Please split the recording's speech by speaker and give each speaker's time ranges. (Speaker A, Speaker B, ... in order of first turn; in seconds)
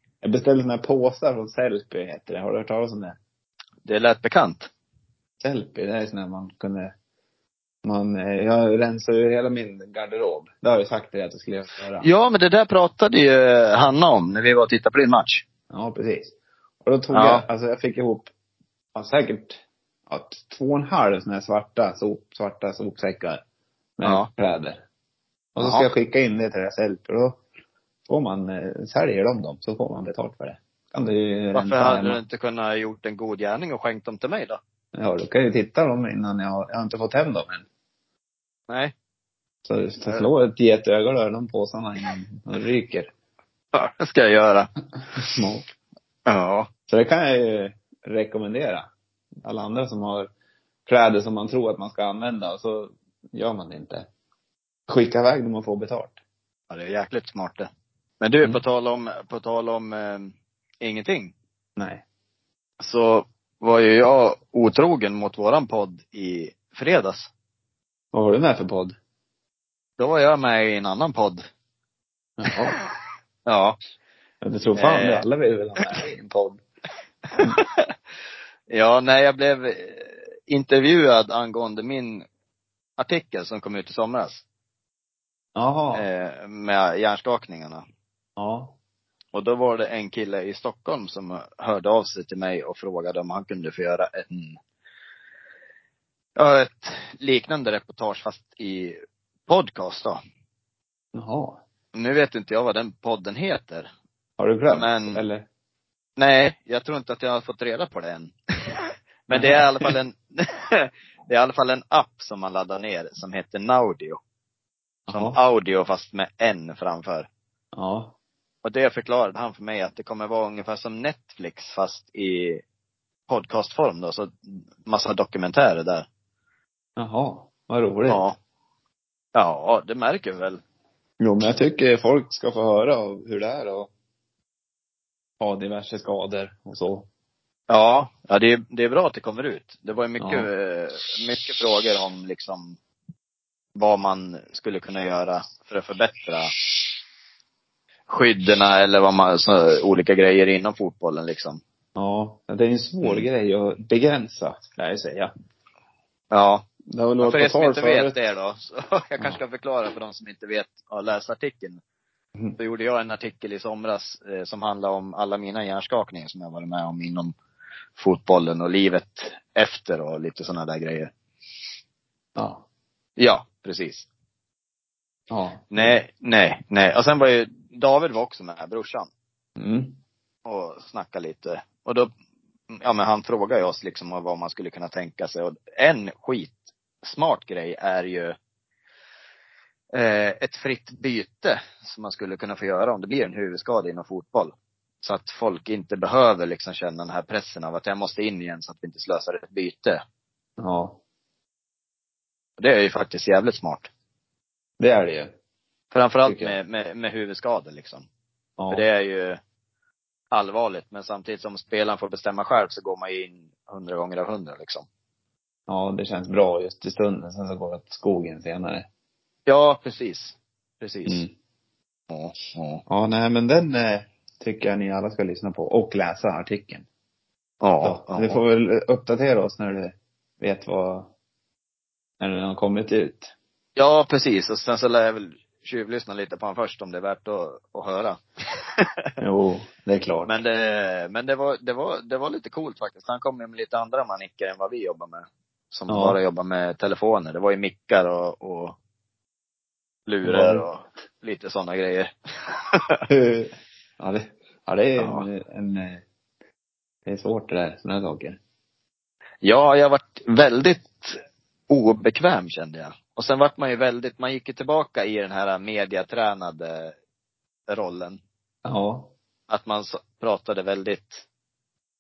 Speaker A: 0.2-3.2, 5.4-6.9, 7.8-12.1, 15.7-18.3, 18.9-23.4, 24.0-24.8, 25.6-27.4, 28.1-32.2, 34.9-37.6, 39.6-43.1, 45.2-45.6, 46.9-48.9, 49.4-50.3, 50.9-54.1, 54.9-56.2, 61.8-62.0, 68.1-69.0, 72.4-72.8, 74.4-76.6, 85.5-86.1, 88.4-88.8, 101.1-101.6, 104.4-105.5, 109.3-109.9, 115.1-115.4, 117.7-118.1, 127.0-128.2, 131.2-133.9, 135.4-137.1, 140.2-140.5, 151.9-155.3, 156.9-158.2, 172.3-172.6, 175.3-176.0, 179.6-180.0, 200.6-201.0, 204.8-205.3, 206.2-206.6, 208.6-208.8, 215.7-218.9, 221.1-221.3, 222.9-226.8, 227.8-231.1, 232.2-233.3, 239.2-240.3, 245.9-246.2, 250.2-250.6, 253.1-256.0, 257.1-258.4, 268.6-269.1
Speaker B: 3.9-4.7, 12.0-15.4, 17.1-17.4, 25.6-25.9, 31.5-34.6, 43.7-44.7, 46.3-46.7, 56.7-57.7, 58.2-61.3, 62.8-67.3, 70.0-71.4, 73.5-73.8, 74.8-75.2, 77.3-77.9, 78.7-82.2, 83.0-84.4, 85.9-87.8, 89.3-94.6, 96.3-100.2, 101.9-103.9, 104.7-105.2, 106.2-114.2, 115.1-117.3, 118.6-122.6, 123.3-126.0, 128.1-128.3, 129.3-130.6, 137.7-142.8, 143.7-146.6, 148.1-151.6, 153.0-153.3, 156.3-156.6, 157.2-161.8, 162.6-167.3, 168.0-171.1, 173.2-174.1, 175.7-179.1, 180.4-182.1, 182.7-188.3, 189.9-200.0, 202.6-203.9, 205.9-208.1, 208.7-209.4, 210.3-214.8, 219.5-221.2, 222.1-222.8, 227.6-228.4, 233.8-239.1, 240.2-248.8, 250.1-253.0, 255.0-255.3, 259.4-266.9, 267.7-268.2, 269.5-271.2